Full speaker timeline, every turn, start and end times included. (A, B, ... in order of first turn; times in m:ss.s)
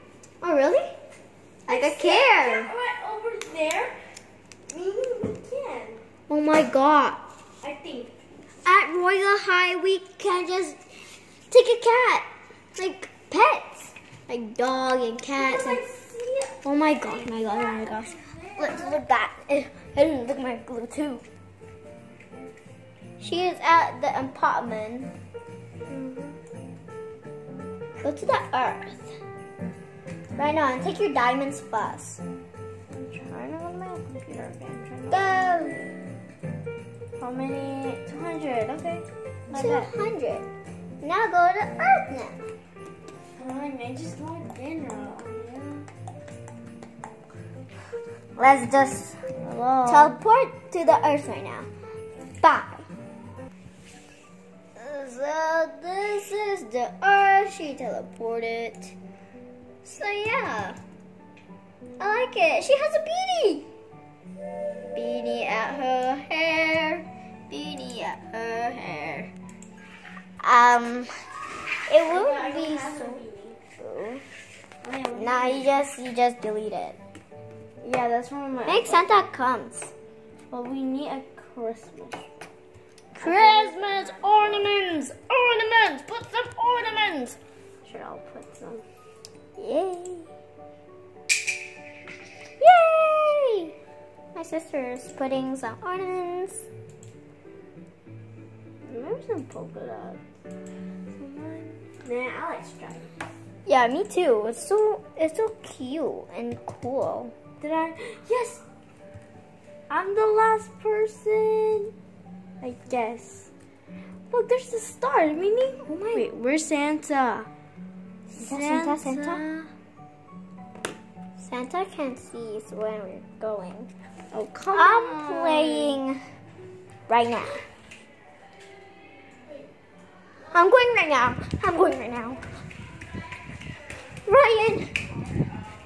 0:00.4-0:01.0 A
0:01.7-0:04.0 B
0:01.7-0:02.7 A
0:04.7-0:06.0 B
0:06.3-0:07.2 A
0:07.6-0:08.1 B
0:08.6-0:10.8 A
0:11.5-0:15.8 A
0:15.4-0:19.0 B
0:16.6-0:21.2 A
0:23.2-0:25.1 A
0:25.9-0:26.4 B
0:28.0-0:29.2 A
0:30.4-0:32.2 A
0:32.9-0:35.7 B
0:35.1-0:35.8 A
0:37.2-0:39.9 B
0:39.5-0:40.5 A
0:41.0-0:42.5 A
0:43.4-0:45.9 B
0:48.4-0:50.2 B
0:49.8-0:51.7 A
0:52.4-0:52.9 A
0:54.8-0:59.0 A
0:59.8-1:00.8 A
1:02.0-1:03.7 A
1:04.9-1:08.3 A
1:08.3-1:09.3 B
1:10.4-1:11.1 A
1:11.9-1:13.2 A
1:12.0-1:13.6 B
1:13.8-1:14.2 A
1:14.8-1:15.7 B
1:15.2-1:17.0 A
1:17.8-1:19.1 B
1:18.7-1:19.9 A
1:20.5-1:22.3 B
1:23.1-1:24.6 B
1:23.2-1:26.1 A
1:25.7-1:27.2 B
1:27.8-1:28.8 B
1:29.6-1:30.3 A
1:32.6-1:33.7 A
1:34.4-1:36.7 A
1:38.9-1:40.2 B
1:41.1-1:43.1 B
1:43.7-1:47.4 A
1:47.6-1:48.6 B
1:49.9-1:51.9 B
1:52.6-1:53.5 B
1:54.3-1:57.5 B
1:55.9-1:56.2 A
1:58.3-1:59.7 B
1:58.4-1:59.4 A
2:01.4-2:03.9 A
2:04.3-2:06.0 B
2:04.7-2:06.2 A
2:07.1-2:07.6 A
2:10.5-2:12.4 A
2:14.3-2:14.9 A